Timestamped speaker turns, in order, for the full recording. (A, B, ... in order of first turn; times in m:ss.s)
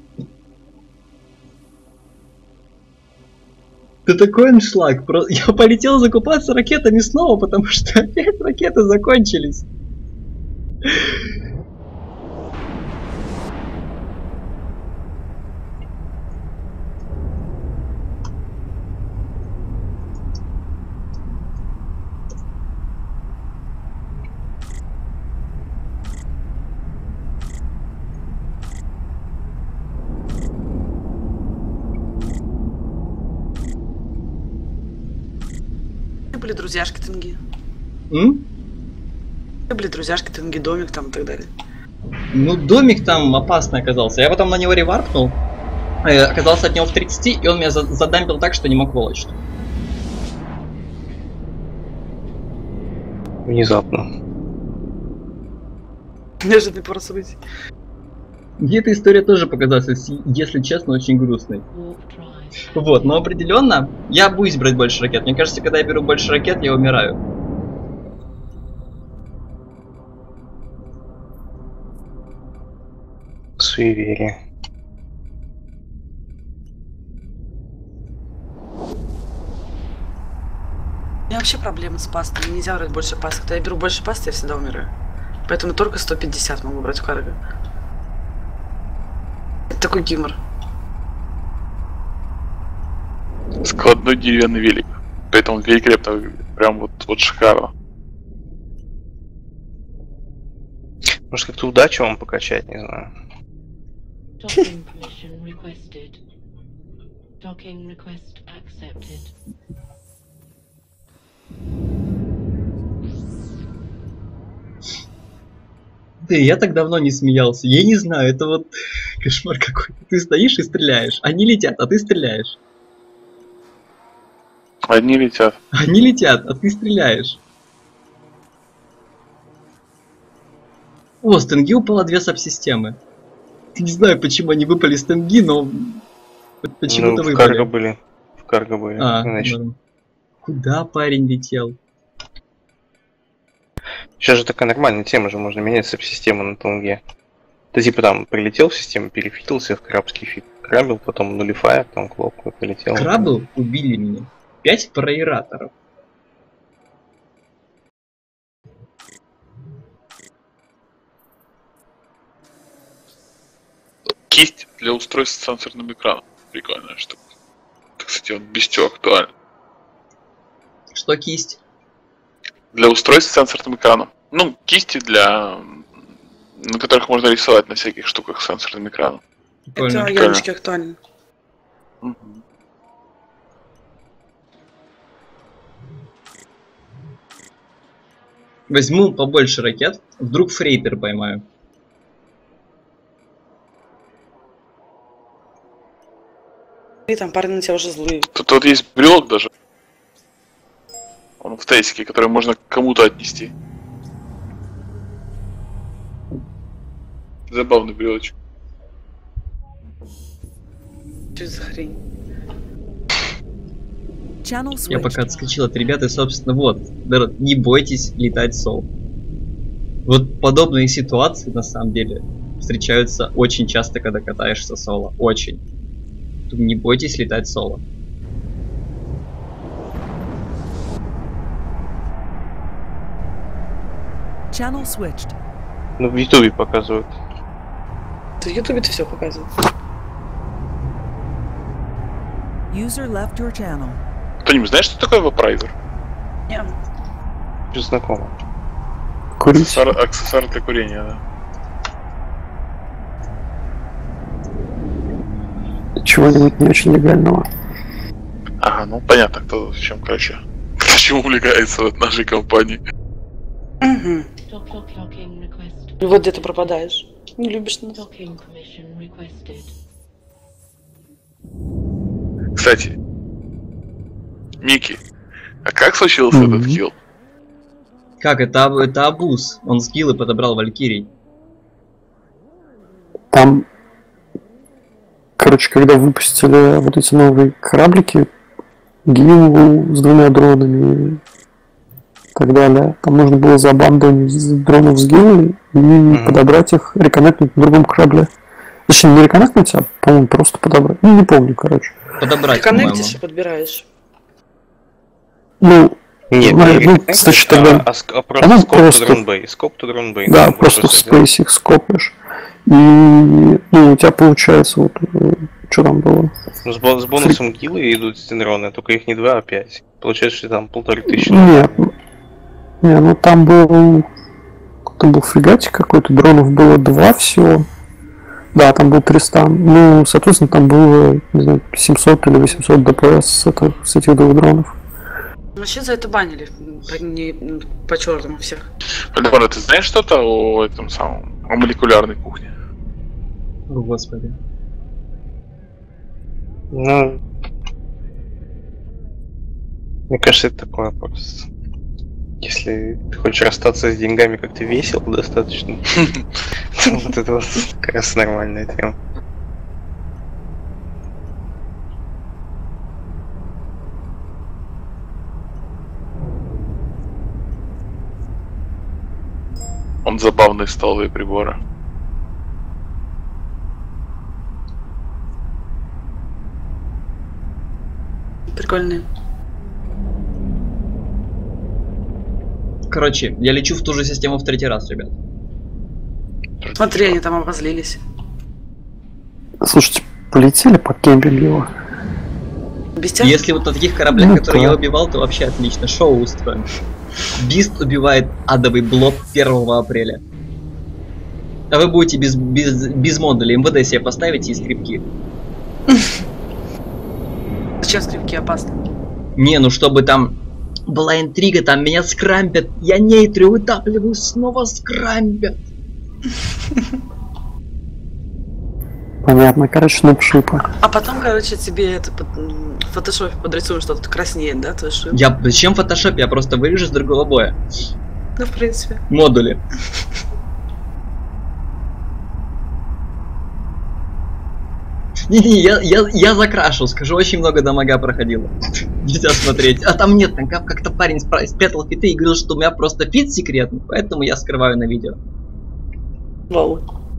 0:04.1-0:09.7 A
0:36.3-0:37.4 B
0:38.1-0:38.5 A
0:39.7-0:41.5 B
0:42.3-0:45.4 A
0:46.0-0:49.4 A
0:53.5-0:54.1 C
0:56.4-0:57.4 B
0:58.6-1:01.7 A
1:01.7-1:03.2 D
1:02.7-1:07.2 A
1:13.6-1:14.4 C
1:21.3-1:24.9 B
1:25.5-1:27.4 B
1:29.7-1:30.4 B
1:33.6-1:37.7 E
1:41.3-1:43.1 C
1:44.4-1:46.2 D
1:47.4-1:49.3 D
1:56.2-1:58.7 A
1:59.2-2:02.6 A
2:04.9-2:05.6 E
2:05.8-2:07.4 A
2:11.2-2:13.0 A
2:13.8-2:16.0 A
2:16.6-2:17.7 A
2:16.9-2:19.6 C
2:19.0-2:19.8 A
2:20.4-2:21.8 A
2:24.2-2:27.0 C
2:27.7-2:33.3 C
2:32.9-2:35.7 A
2:44.3-2:47.2 E
2:48.0-2:49.3 E
2:50.9-2:51.6 A
2:52.7-2:55.9 E
2:56.6-2:59.2 E
2:59.7-3:00.1 A
2:59.8-3:01.0 B
3:00.0-3:00.4 E
3:02.0-3:02.4 E
3:08.7-3:11.4 A
3:17.1-3:18.3 B
3:18.3-3:19.5 E
3:21.4-3:23.5 E
3:27.5-3:28.3 E
3:31.4-3:32.0 B
3:34.4-3:35.4 F
3:34.9-3:38.9 A
3:34.9-3:36.0 D
3:40.1-3:45.6 A
3:46.5-3:47.8 A
3:54.5-3:55.4 F
3:56.0-3:57.2 C
3:58.4-3:59.5 B
4:02.7-4:04.0 F
4:04.4-4:05.7 E
4:07.7-4:08.3 C
4:09.4-4:09.9 G
4:09.6-4:11.2 E
4:16.0-4:17.5 G
4:18.6-4:22.8 E
4:23.8-4:24.3 B
4:24.5-4:26.7 D
4:26.0-4:28.0 B
4:27.9-4:29.8 D
4:32.6-4:33.0 E
4:34.6-4:35.0 E
4:35.6-4:37.0 E
4:36.3-4:36.8 G
4:38.2-4:41.1 A
4:43.3-4:43.7 G
4:45.4-4:48.3 G
4:49.1-4:51.2 G
4:52.4-4:58.3 G
4:56.1-4:56.5 C
4:58.9-5:02.0 G
5:02.2-5:03.2 A
5:02.5-5:03.9 B
5:05.6-5:07.9 G
5:06.3-5:11.3 C
5:07.2-5:07.7 B
5:08.4-5:09.2 G
5:10.3-5:12.2 G
5:12.7-5:16.3 G
5:16.6-5:21.9 C
5:21.1-5:21.9 G
5:22.8-5:24.1 G
5:25.0-5:27.7 G
5:28.5-5:34.7 G
5:35.6-5:38.7 B
5:39.1-5:42.5 E
5:43.7-5:44.4 A
5:46.7-5:47.2 C
5:50.1-5:51.5 C
5:52.4-5:55.8 C
5:56.8-5:59.0 C
6:10.0-6:11.6 E
6:18.5-6:19.0 B
6:22.9-6:25.2 A
6:26.6-6:27.2 E
6:26.8-6:28.0 B
6:29.6-6:31.7 G
6:33.0-6:33.4 B
6:33.2-6:36.6 A
6:34.1-6:34.8 G
6:37.4-6:40.2 A
6:41.7-6:45.1 A
6:47.8-6:48.8 B
6:49.4-6:55.6 A
6:59.2-7:00.6 G
7:00.8-7:05.2 B
7:05.1-7:07.6 A
7:08.4-7:09.0 B
7:09.1-7:09.6 A
7:15.3-7:18.5 A
7:19.0-7:25.2 A
7:26.5-7:26.8 B